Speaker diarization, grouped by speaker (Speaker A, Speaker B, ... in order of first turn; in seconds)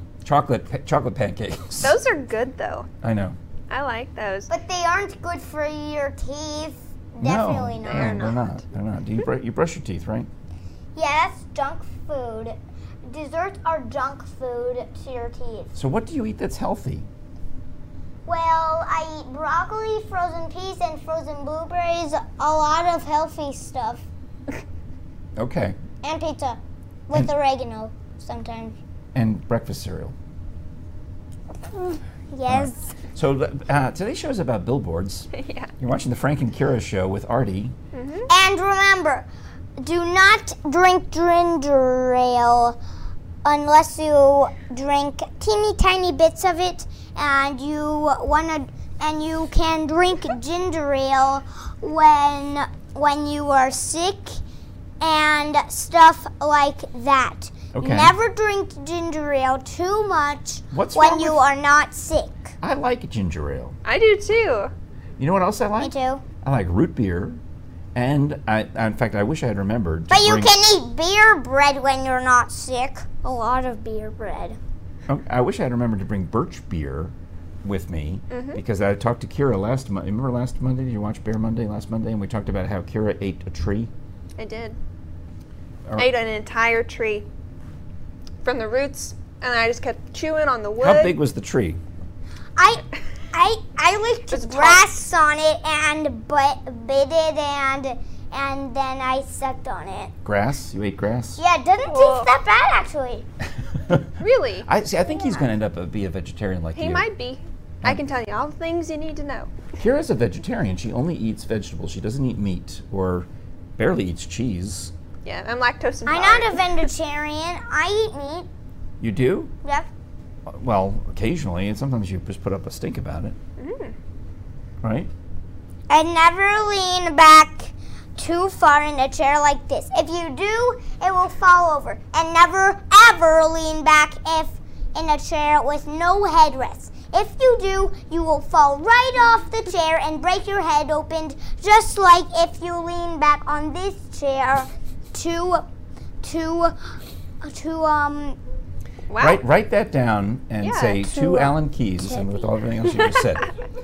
Speaker A: 0.2-2.0, 3.0-3.4, 7.2-10.3, 15.8-17.1, 25.4-25.8, 29.1-30.1, 32.5-37.7, 57.7-58.1, 60.7-61.4, 62.6-63.8, 65.2-67.4, 67.9-70.5, 75.1-77.1, 77.6-83.9, 90.8-91.8, 100.2-101.4, 103.8-104.1, 104.6-107.1, 109.8-114.9, 119.0-119.5, 120.5-123.3, 124.8-125.1, 149.2-153.5
Speaker B: 1.8-2.9, 3.7-4.5, 7.8-8.5, 35.3-35.7, 37.9-38.3, 63.8-64.7, 78.3-78.6, 84.4-84.8, 86.0-87.2, 88.4-91.1, 94.3-94.8, 101.8-102.3, 104.2-104.7, 106.7-109.5, 115.2-116.6, 123.6-123.9, 149.1-149.4, 150.6-151.5
Speaker C: 4.5-8.2, 10.9-15.7, 18.2-24.0, 26.0-28.8, 31.7-32.9, 38.3-39.2, 39.8-42.8, 43.4-54.4, 55.0-62.5, 65.8-66.2, 70.1-74.6, 92.6-100.1, 101.4-103.2, 116.0-118.5, 125.9-145.6, 146.2-146.8, 147.4-148.4, 152.1-152.4